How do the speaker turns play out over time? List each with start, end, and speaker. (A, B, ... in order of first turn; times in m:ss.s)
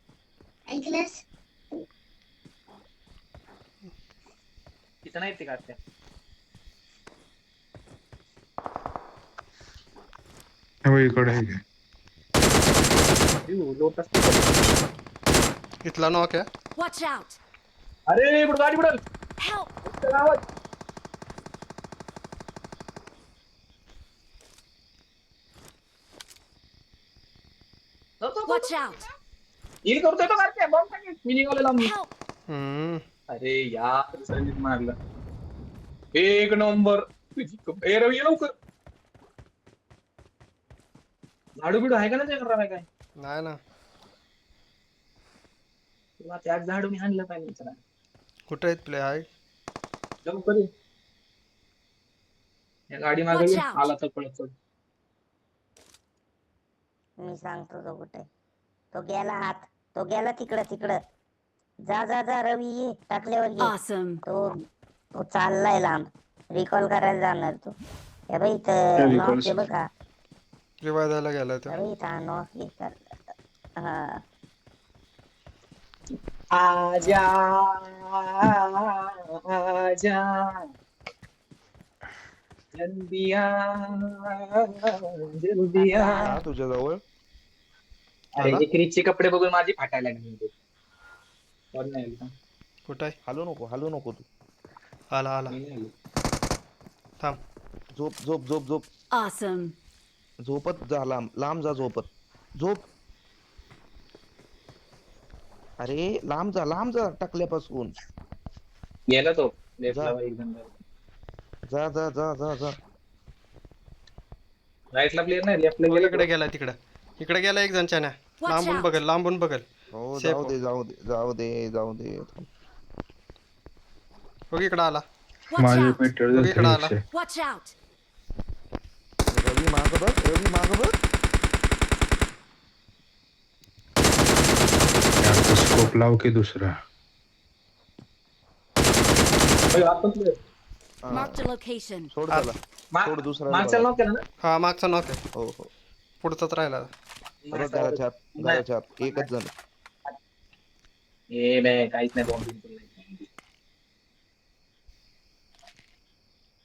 0:00.7-0:01.2 A
0:05.0-0:05.8 B
0:10.8-0:11.6 C
0:13.4-0:14.6 B
0:15.8-0:16.4 D
0:16.8-0:17.4 E
0:18.1-0:19.0 B
0:19.4-0:19.7 E
0:19.8-0:20.4 B
0:28.2-0:29.1 B
0:28.4-0:29.0 E
0:29.8-0:31.9 B
0:31.8-0:32.1 E
0:32.5-0:33.0 D
0:33.3-0:35.0 B
0:36.1-0:38.5 B
0:41.6-0:42.8 B
0:43.2-0:43.6 D
0:46.2-0:47.8 B
0:48.5-0:49.2 D
0:50.2-0:50.7 B
0:52.9-0:54.5 B
0:53.3-0:53.9 E
0:57.2-0:58.2 A
0:58.9-1:01.0 A
1:01.9-1:03.7 A
1:03.6-1:04.2 E
1:05.2-1:07.7 A
1:08.3-1:09.8 A
1:09.0-1:09.7 C
1:10.8-1:11.8 D
1:11.7-1:13.0 A
1:13.8-1:14.2 A
1:16.5-1:20.7 B
1:22.7-1:26.2 B
1:25.8-1:26.4 A
1:26.1-1:27.0 F
1:28.3-1:30.5 B
1:31.7-1:32.3 B
1:32.9-1:33.2 D
1:33.2-1:34.2 F
1:35.1-1:35.6 D
1:35.5-1:35.9 B
1:37.9-1:38.9 F
1:39.1-1:39.7 E
1:40.4-1:42.8 F
1:45.8-1:47.9 F
1:49.1-1:50.8 B
1:49.9-1:50.1 F
1:51.7-1:52.8 F
1:54.9-1:56.3 B
1:55.9-1:59.6 D
1:58.4-1:58.9 E
1:59.9-2:02.5 F
2:00.2-2:00.5 D
2:04.5-2:05.0 D
2:05.5-2:06.1 E
2:05.5-2:07.0 C
2:06.3-2:06.9 D
2:07.0-2:07.7 E
2:09.3-2:10.9 F
2:15.2-2:16.7 C
2:19.7-2:20.4 B
2:21.0-2:21.4 F
2:21.1-2:22.1 E
2:22.1-2:23.9 F
2:22.9-2:24.2 B
2:24.4-2:25.2 D
2:25.4-2:25.7 F
2:26.2-2:26.9 D
2:27.4-2:29.3 B
2:27.5-2:29.5 F
2:31.3-2:33.3 B